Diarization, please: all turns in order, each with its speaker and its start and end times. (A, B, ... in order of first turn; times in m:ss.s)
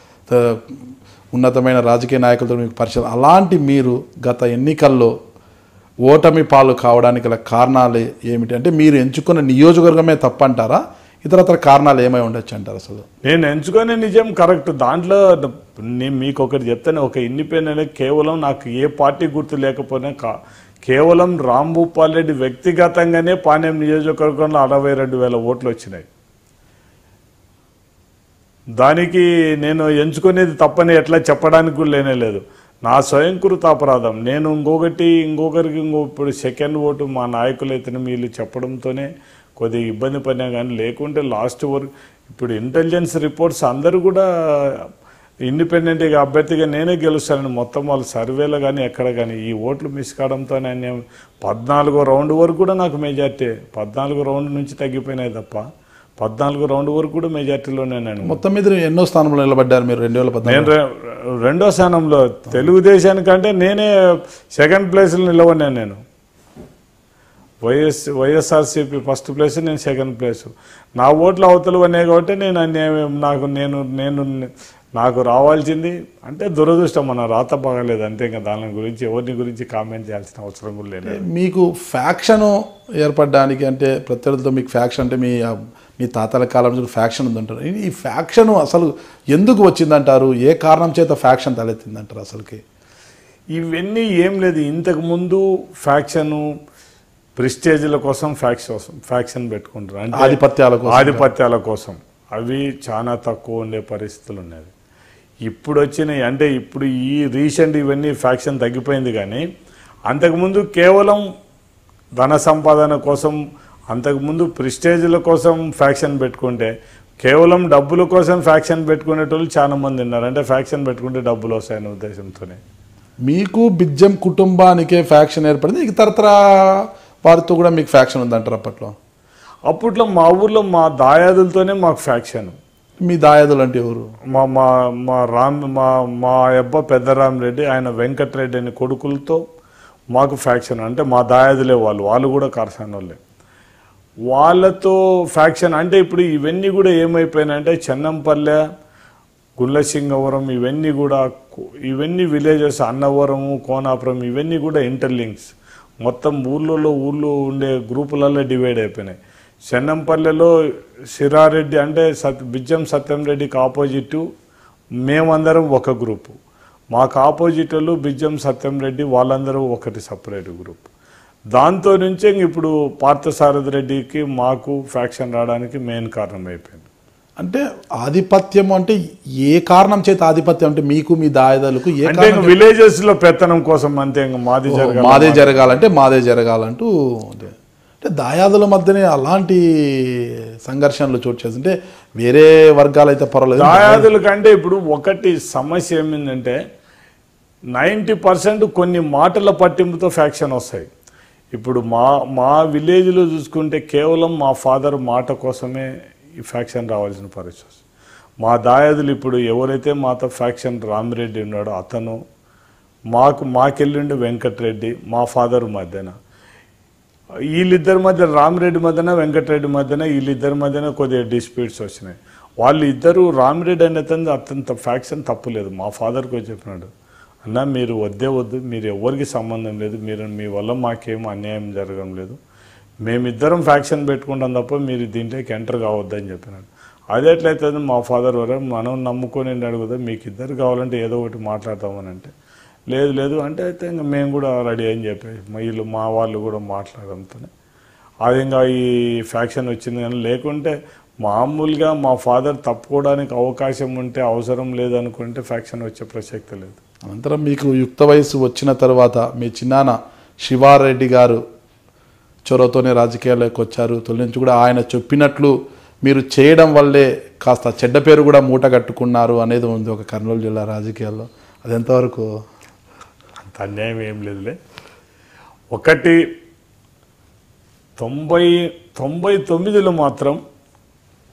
0:00.3-0:00.8 A
0:01.3-0:05.1 A
0:06.0-0:13.0 A
0:13.2-0:20.3 B
0:20.8-0:26.1 B
0:28.8-0:39.1 B
0:39.6-0:44.8 B
0:45.5-0:55.6 B
0:56.2-0:58.4 B
0:58.2-1:00.7 A
1:00.4-1:00.8 B
1:01.4-1:03.9 B
1:04.6-1:06.0 B
1:07.6-1:21.2 B
1:21.1-1:32.6 A
1:33.6-1:36.4 B
1:37.4-1:44.7 B
1:40.2-1:41.3 A
1:45.5-1:49.4 B
1:50.1-1:51.2 B
1:52.2-1:53.4 B
1:53.9-2:02.6 B
2:03.2-2:09.0 A
2:09.7-2:12.6 B
2:13.0-2:14.1 A
2:14.3-2:19.4 B
2:20.1-2:23.2 B
2:24.3-2:28.6 B
2:29.6-2:31.2 B
2:31.8-2:40.5 B
2:41.1-2:44.2 B
2:45.0-2:46.4 B
2:46.9-2:50.8 B
2:51.6-2:56.8 B
2:57.4-3:02.6 A
3:02.0-3:05.8 B
3:04.7-3:14.1 A
3:13.6-3:16.6 B
3:17.8-3:20.9 B
3:21.5-3:25.9 B
3:26.4-3:27.8 B
3:28.4-3:32.2 B
3:33.1-3:36.1 B
3:37.5-3:46.9 B
3:47.4-3:52.4 B
3:53.0-4:02.3 B
4:02.9-4:07.5 B
4:08.2-4:16.8 B
4:17.1-4:21.4 A
4:22.4-4:32.2 A
4:33.4-4:34.6 B
4:35.7-4:36.2 B
4:38.0-4:40.4 B